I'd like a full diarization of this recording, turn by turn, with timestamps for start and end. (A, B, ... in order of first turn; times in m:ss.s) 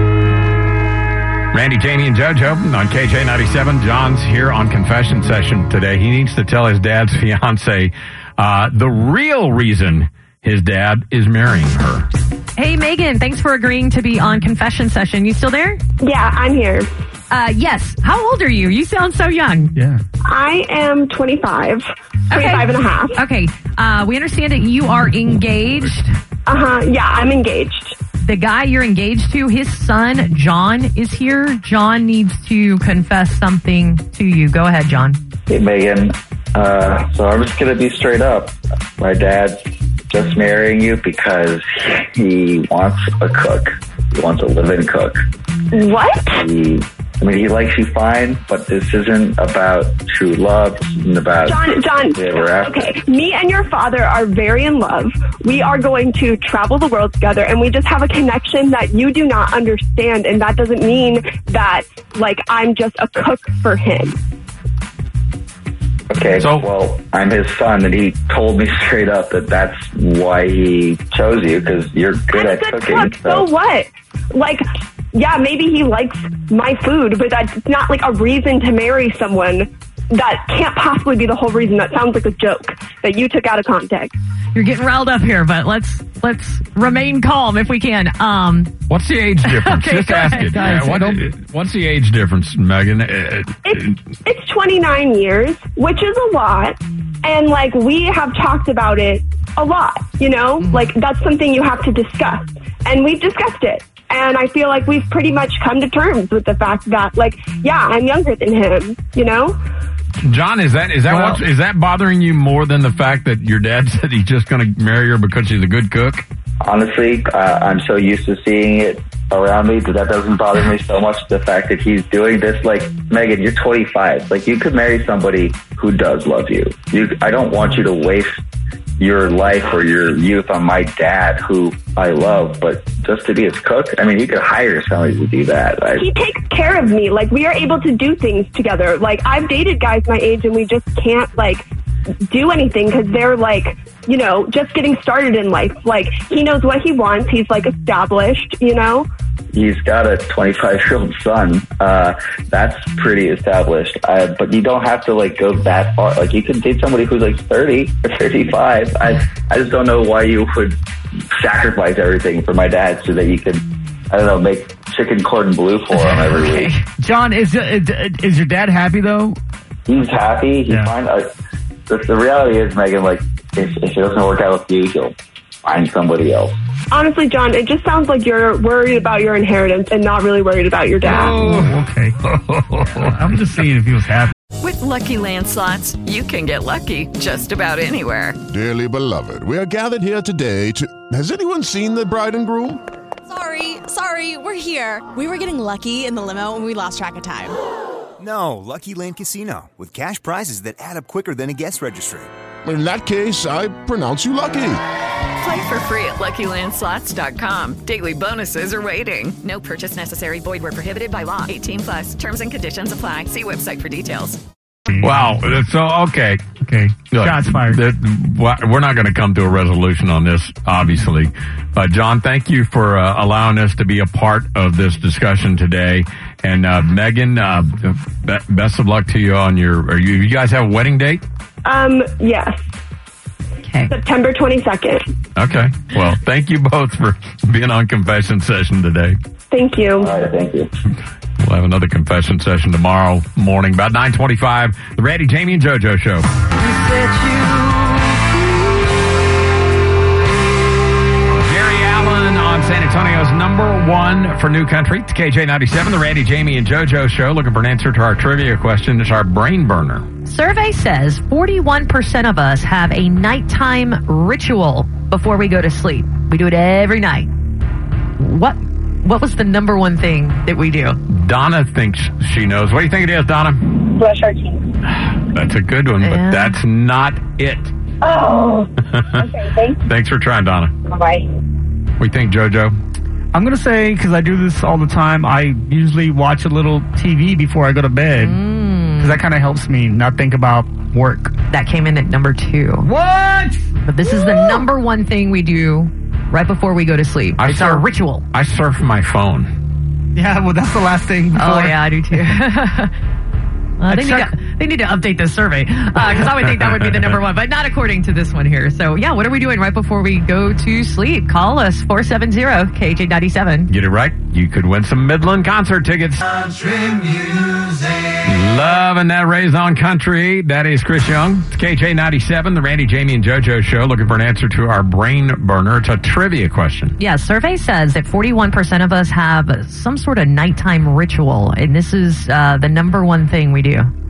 0:01.5-0:12.1 A
0:12.6-0:15.8 B
0:16.0-0:16.9 C
0:17.3-0:19.8 B
0:19.8-0:20.0 D
0:20.3-0:21.8 C
0:22.3-0:26.1 B
0:22.4-0:23.1 C
0:26.5-0:27.9 C
0:28.2-0:35.2 B
0:35.5-0:39.6 E
0:40.1-0:45.2 E
0:45.7-0:46.4 C
0:46.4-0:52.8 E
0:51.5-1:04.2 C
1:06.1-1:13.5 E
1:06.4-1:06.6 A
1:12.4-1:14.6 C
1:15.1-1:24.1 C
1:24.5-1:28.7 B
1:28.9-1:33.9 A
1:29.4-1:30.8 B
1:30.6-1:31.3 D
1:34.2-1:49.6 C
1:50.2-1:56.2 A
1:56.6-2:08.3 E
2:09.0-2:16.1 E
2:16.0-2:21.6 C
2:22.3-2:29.1 C
2:29.5-2:40.8 E
2:41.3-2:46.7 E
2:46.0-2:46.8 B
2:47.0-2:49.4 D
2:49.9-2:51.3 E
2:51.9-2:56.6 E
2:56.9-3:01.3 C
3:01.2-3:01.8 A
3:01.2-3:04.3 D
3:04.6-3:08.4 F
3:08.5-3:12.8 G
3:13.3-3:17.5 H
3:18.2-3:22.3 I
3:22.6-3:24.8 G
3:25.4-3:34.4 F
3:34.9-3:35.3 D
3:35.0-3:36.4 A
3:36.6-3:37.8 D
3:37.1-3:51.2 A
3:51.6-3:52.6 C
3:53.6-3:53.9 B
3:53.9-3:55.0 C
3:55.4-3:59.2 A
3:59.5-4:00.1 C
4:00.0-4:00.7 E
4:01.4-4:06.3 A
4:07.0-4:07.3 D
4:11.3-4:20.0 A
4:20.2-4:27.3 B
4:28.2-4:31.0 B
4:31.1-4:33.8 A
4:35.2-4:37.7 A
4:36.0-4:36.5 B
4:38.9-4:39.2 A
4:39.8-4:40.7 A
4:42.0-4:42.7 A
4:43.3-4:48.4 D
4:48.2-4:49.2 B
4:49.0-4:51.3 D
4:51.5-4:52.9 B
4:52.8-4:53.6 D
4:53.8-4:58.2 B
4:57.4-4:59.5 A
5:00.2-5:01.8 D
5:01.3-5:02.9 B
5:03.8-5:13.7 B
5:03.9-5:04.3 D
5:13.7-5:16.4 A
5:18.2-5:26.9 A
5:27.0-5:33.9 B